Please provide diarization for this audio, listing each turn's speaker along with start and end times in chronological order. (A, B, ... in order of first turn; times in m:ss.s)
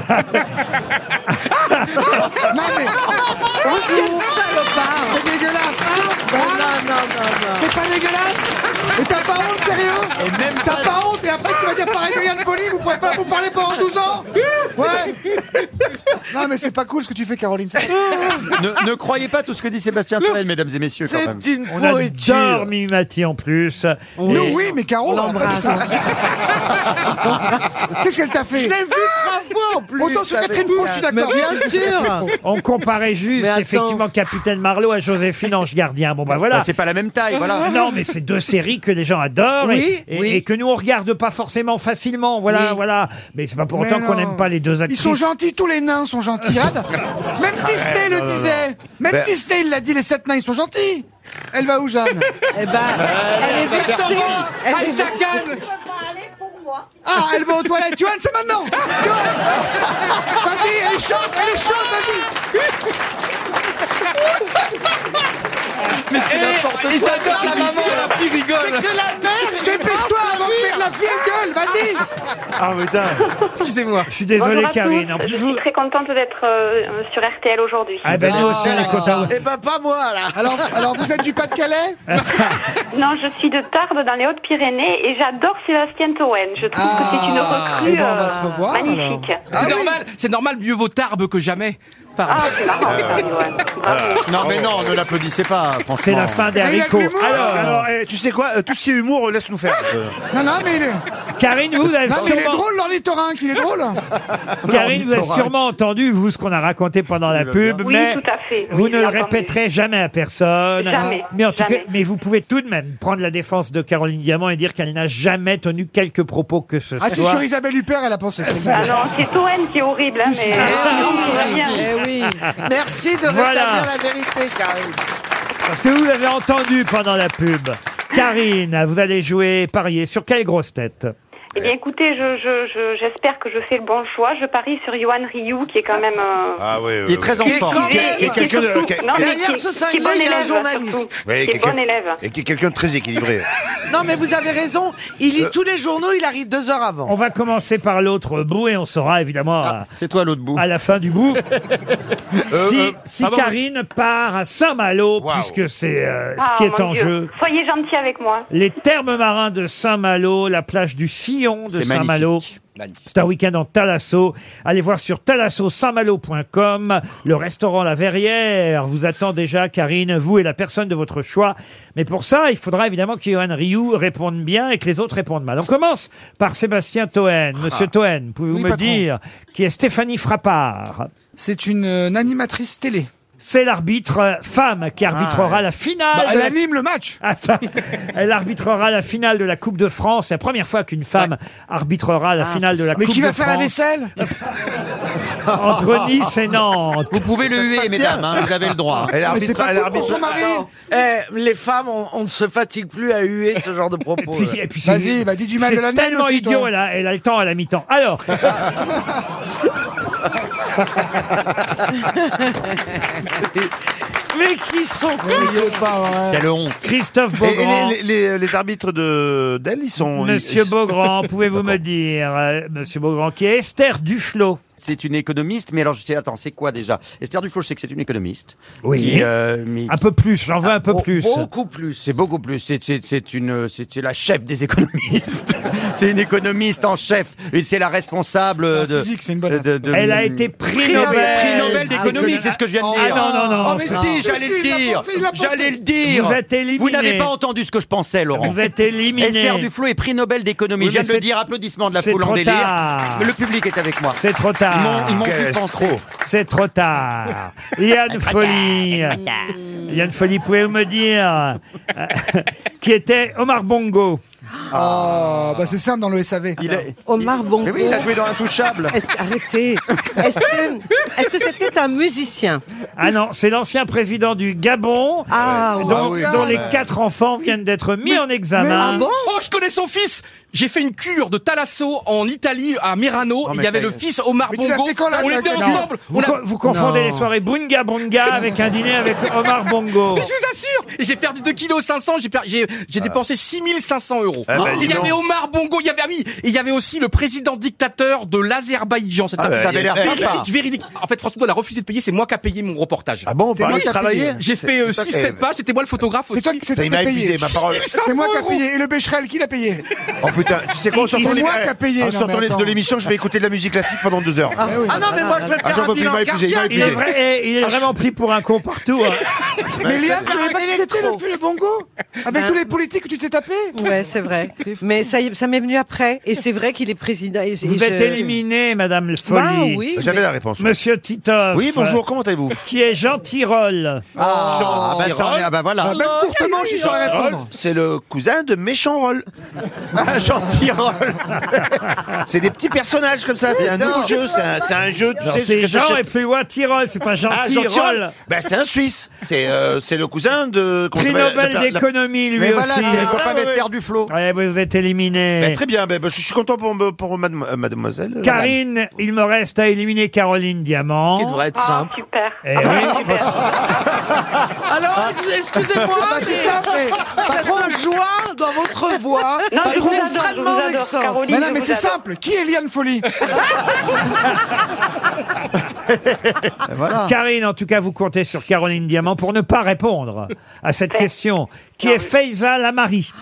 0:00.1-0:00.4 A
0:01.4-0:02.0 A
0:02.0-0:03.0 B
0:03.5-0:05.2 C
0:03.6-0:04.3 B
0:05.1-0:06.8 B
0:06.0-0:07.7 C
0:07.6-0:15.3 B
0:10.2-0:11.0 D
0:16.3-0:18.0 B
0:17.9-0:21.5 D
0:18.0-0:18.4 E
0:21.0-0:22.7 E
0:21.7-0:22.0 B
0:21.9-0:24.6 A
0:24.2-0:26.2 C
0:24.3-0:26.0 B
0:27.3-0:28.0 C
0:28.0-0:28.8 B
0:28.5-0:31.3 E
0:30.0-0:32.3 B
0:31.0-0:32.3 C
0:32.4-0:36.7 A
0:33.4-0:34.0 C
0:36.5-0:37.7 D
0:37.6-0:45.3 A
0:39.6-0:40.4 C
0:42.5-0:42.8 C
0:43.7-0:52.3 B
0:47.6-0:49.3 F
0:52.5-0:55.4 C
0:53.1-0:55.6 G
0:57.0-1:02.3 B
1:06.1-1:08.1 D
1:06.1-1:08.9 G
1:06.8-1:11.4 E
1:07.3-1:07.7 F
1:09.5-1:12.0 B
1:12.6-1:13.3 F
1:13.5-1:14.1 G
1:14.1-1:15.6 A
1:14.3-1:18.3 H
1:18.0-1:19.3 A
1:18.2-1:19.3 D
1:18.2-1:19.1 B
1:19.2-1:21.1 E
1:20.3-1:22.0 B
1:22.1-1:22.6 A
1:22.9-1:29.5 H
1:26.7-1:29.4 B
1:27.3-1:28.0 G
1:29.5-1:30.0 E
1:29.5-1:33.2 G
1:32.3-1:34.2 H
1:32.8-1:33.2 F
1:33.8-1:35.1 F
1:34.2-1:36.5 D
1:36.0-1:37.9 A
1:36.5-1:37.7 B
1:37.4-1:40.2 F
1:39.7-1:41.0 B
1:41.4-1:42.6 A
1:42.0-1:44.0 B
1:42.1-1:42.5 F
1:44.6-1:45.5 D
1:44.7-1:57.4 A
1:47.4-1:47.8 D
1:47.8-1:49.6 H
1:50.8-1:51.9 H
1:57.0-1:59.0 B
1:58.7-2:01.7 H
2:00.2-2:01.8 B
2:00.6-2:01.3 A
2:00.6-2:01.9 E
2:00.7-2:02.6 C
2:01.4-2:01.9 F
2:02.5-2:05.0 E
2:03.2-2:03.9 A
2:05.6-2:11.1 A
2:11.6-2:16.7 H
2:16.6-2:19.4 F
2:17.0-2:18.0 D
2:17.4-2:18.4 E
2:17.5-2:22.2 H
2:19.1-2:21.1 E
2:21.2-2:23.5 F
2:23.9-2:27.1 E
2:27.0-2:29.8 A
2:30.0-2:30.6 D
2:30.5-2:31.4 A
2:32.5-2:37.3 A
2:32.5-2:33.5 F
2:35.2-2:35.6 F
2:36.4-2:38.5 H
2:38.5-2:42.5 A
2:41.7-2:42.4 D
2:43.0-3:01.1 A
2:58.5-2:59.0 B
3:01.4-3:03.1 B
3:03.4-3:06.5 A
3:05.1-3:05.6 D
3:06.1-3:07.2 B
3:07.2-3:14.3 A
3:12.4-3:13.0 D
3:12.9-3:14.1 B
3:15.5-3:17.2 A
3:17.1-3:19.2 D
3:17.4-3:18.5 F
3:19.1-3:20.4 F
3:19.2-3:20.7 B
3:20.0-3:24.6 E
3:24.2-3:28.7 A
3:24.8-3:26.7 B
3:33.3-3:33.7 E
3:34.3-3:35.9 E
3:35.2-3:36.4 B
3:36.3-3:36.9 D
3:36.8-3:38.0 A
3:37.4-3:41.8 F
3:40.0-3:44.6 A
3:44.8-3:50.0 D
3:48.8-3:49.3 A
3:49.8-3:51.5 A
3:50.8-3:52.0 E
3:52.0-4:03.2 D
3:58.7-3:59.7 B
3:59.9-4:02.1 A
4:01.0-4:01.7 E
4:01.2-4:02.6 C
4:02.8-4:05.8 B
4:02.9-4:04.0 A
4:03.9-4:04.2 C
4:03.9-4:08.6 D
4:06.1-4:07.3 A
4:08.3-4:09.7 A
4:09.2-4:16.0 D
4:10.8-4:11.3 A
4:11.9-4:13.3 A
4:14.1-4:15.3 A
4:15.2-4:16.0 F
4:16.1-4:24.2 A
4:18.1-4:19.6 D
4:24.7-4:25.7 D
4:24.7-4:26.6 B
4:26.6-4:29.0 D
4:27.0-4:28.2 C
4:28.9-4:32.6 C
4:33.0-4:39.1 A
4:35.3-4:36.4 C
4:35.8-4:36.8 B
4:36.0-4:36.4 F
4:38.6-4:38.8 B
4:38.7-4:39.3 C
4:38.8-4:46.4 G
4:43.4-4:44.1 D
4:44.5-4:45.9 B
4:46.1-4:50.3 A
4:46.6-4:47.1 C
4:48.3-4:48.6 B
4:50.0-5:06.8 G
4:54.5-4:55.2 F
4:54.5-4:54.8 D
4:59.4-5:00.3 F
4:59.4-5:00.5 D
5:03.2-5:05.4 F
5:03.5-5:04.4 B
5:06.3-5:09.8 B
5:06.7-5:08.0 F
5:07.4-5:08.6 G
5:10.2-5:14.7 F
5:10.9-5:11.5 A
5:11.0-5:12.8 B
5:14.6-5:15.0 B
5:14.7-5:15.6 C
5:14.8-5:17.0 E
5:15.6-5:17.0 F
5:16.7-5:19.6 A
5:19.8-5:21.2 E
5:19.8-5:23.9 B
5:22.2-5:22.6 C
5:23.7-5:28.4 C
5:24.5-5:25.0 B
5:27.6-5:29.9 A
5:29.2-5:30.2 C
5:29.9-5:30.7 F
5:30.6-5:32.0 A
5:31.5-5:32.6 F
5:32.6-5:34.0 A
5:34.2-5:35.9 F
5:34.2-5:36.0 D
5:35.8-5:37.5 B
5:36.5-5:39.3 F
5:39.9-5:41.6 D
5:42.2-5:46.0 F
5:43.6-5:44.2 D
5:45.2-5:48.1 A
5:47.3-5:51.8 F
5:50.9-5:53.2 A
5:52.4-5:54.1 D
5:52.8-5:53.6 F
5:54.1-5:55.6 A
5:55.4-5:58.6 F
5:58.2-6:01.4 A
6:01.1-6:01.6 G
6:01.3-6:01.9 E
6:01.5-6:03.5 H
6:02.4-6:03.2 A
6:02.8-6:03.2 E
6:04.5-6:11.2 E
6:06.0-6:07.8 B
6:09.5-6:12.0 H
6:09.6-6:10.4 B
6:11.2-6:13.2 B
6:15.9-6:17.2 D
6:17.0-6:23.1 A
6:21.8-6:22.1 H